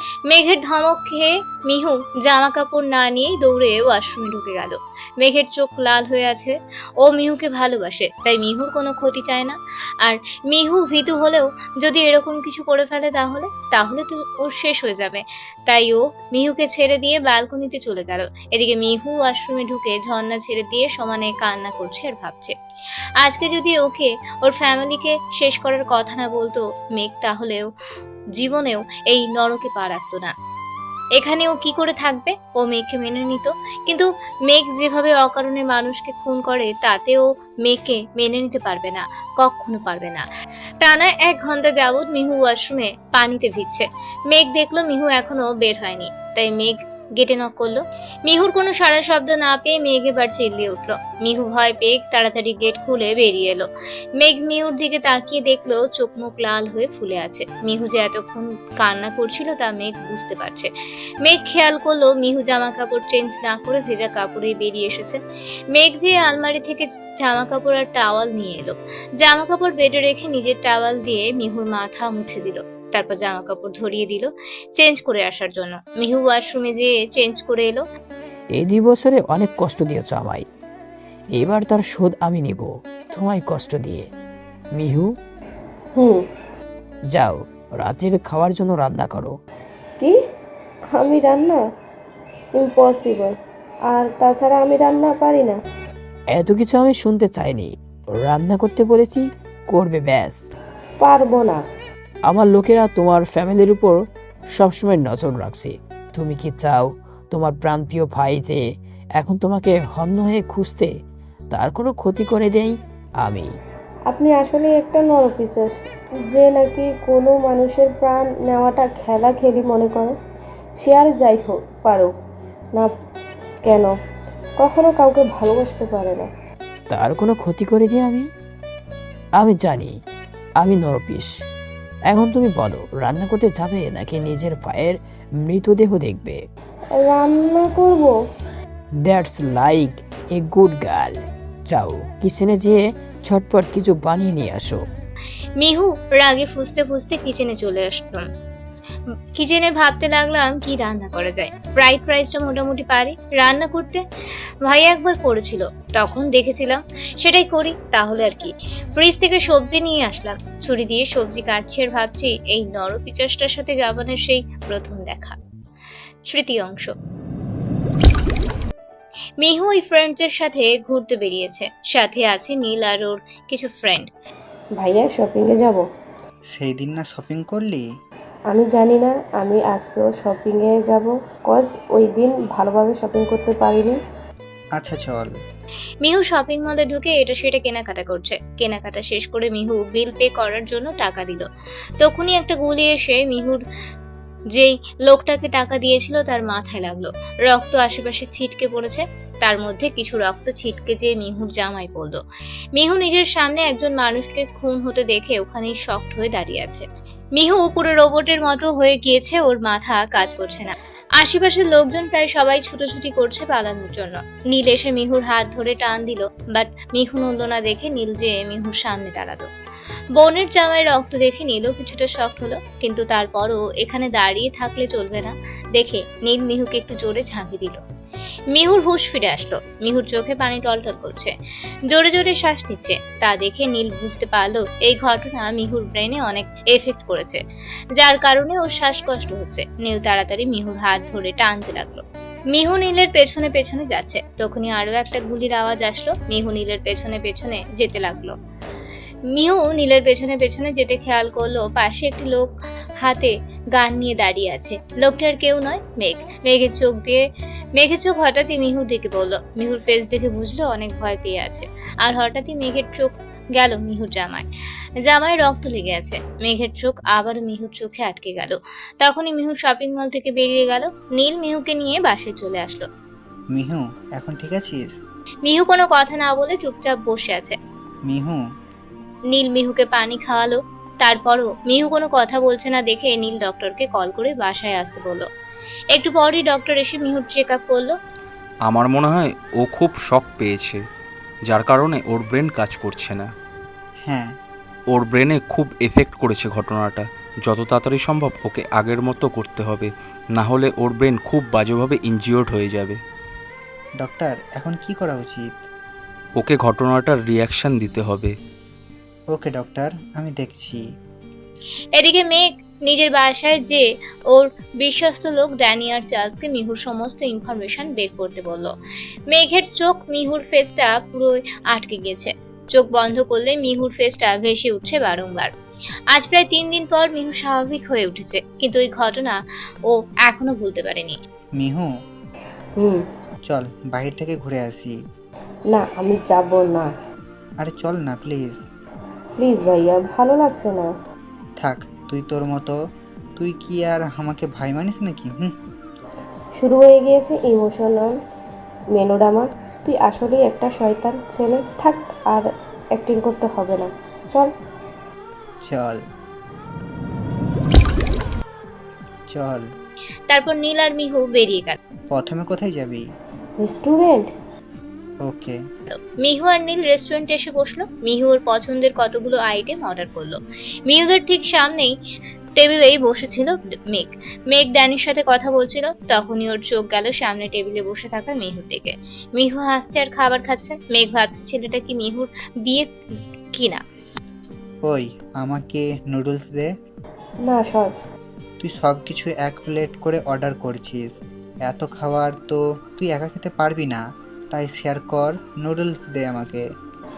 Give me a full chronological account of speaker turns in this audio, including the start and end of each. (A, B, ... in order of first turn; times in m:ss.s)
0:00.3-0:22.5 A
0:23.2-0:27.7 A
0:28.4-0:30.3 A
0:31.2-0:40.2 A
0:40.8-1:00.7 A
1:01.2-1:05.2 A
1:05.7-1:17.8 A
1:18.6-1:20.4 B
1:21.3-1:24.1 B
1:24.8-1:25.1 B
1:26.0-1:26.2 C
1:27.1-1:29.3 B
1:30.9-1:31.6 C
1:32.6-1:33.3 C
1:33.9-1:35.6 C
1:36.3-1:40.4 B
1:41.0-1:41.6 C
1:42.3-1:44.0 B
1:44.6-1:48.6 B
1:49.2-1:50.9 B
1:51.5-1:53.5 B
1:54.1-1:55.7 C
1:56.3-2:00.1 C
2:00.8-2:02.1 C
2:03.6-2:03.9 C
2:04.6-2:06.3 C
2:06.9-2:08.3 B
2:09.4-2:09.9 B
2:10.6-2:11.3 B
2:12.1-2:16.4 B
2:17.0-2:18.1 C
2:19.0-2:21.2 B
2:21.7-2:24.8 B
2:25.6-2:28.3 A
2:29.4-2:34.0 A
2:34.6-2:45.4 A
2:46.3-2:46.9 A
2:49.4-2:54.1 A
2:54.8-2:55.8 C
2:56.5-2:57.8 D
2:58.5-3:04.0 C
3:04.8-3:05.3 D
3:06.0-3:11.5 A
3:12.0-3:13.6 A
3:14.5-3:22.2 A
3:22.7-3:39.5 A
3:40.2-3:47.8 A
3:48.5-3:51.3 A
3:51.9-3:57.4 A
3:58.0-4:08.3 A
4:09.3-4:17.2 A
4:17.8-4:24.5 A
4:25.0-4:32.8 A
4:33.5-4:34.9 D
4:35.4-4:37.6 A
4:38.1-4:38.4 D
4:39.3-4:45.3 A
4:45.9-4:47.9 A
4:48.7-4:50.8 E
4:51.5-4:53.3 E
4:54.0-4:54.3 D
4:54.9-5:03.0 E
5:04.0-5:05.6 D
5:06.4-5:08.3 E
5:09.3-5:10.8 D
5:12.0-5:18.7 A
5:19.3-5:25.5 A
5:26.1-5:31.2 A
5:31.6-5:31.9 D
5:33.5-5:35.0 D
5:35.7-5:36.9 C
5:37.6-5:38.6 D
5:39.4-5:40.9 C
5:41.6-5:42.7 D
5:43.4-5:45.5 D
5:46.6-5:48.1 C
5:48.9-5:54.5 C
5:55.6-5:56.0 D
5:59.3-5:59.6 D
6:00.3-6:01.8 A
6:02.1-6:03.0 D
6:03.6-6:04.3 C
6:05.3-6:05.6 D
6:05.9-6:11.9 A
6:12.6-6:23.8 A
6:24.8-6:26.7 D
6:27.4-6:27.9 C
6:28.6-6:31.1 D
6:31.6-6:36.6 D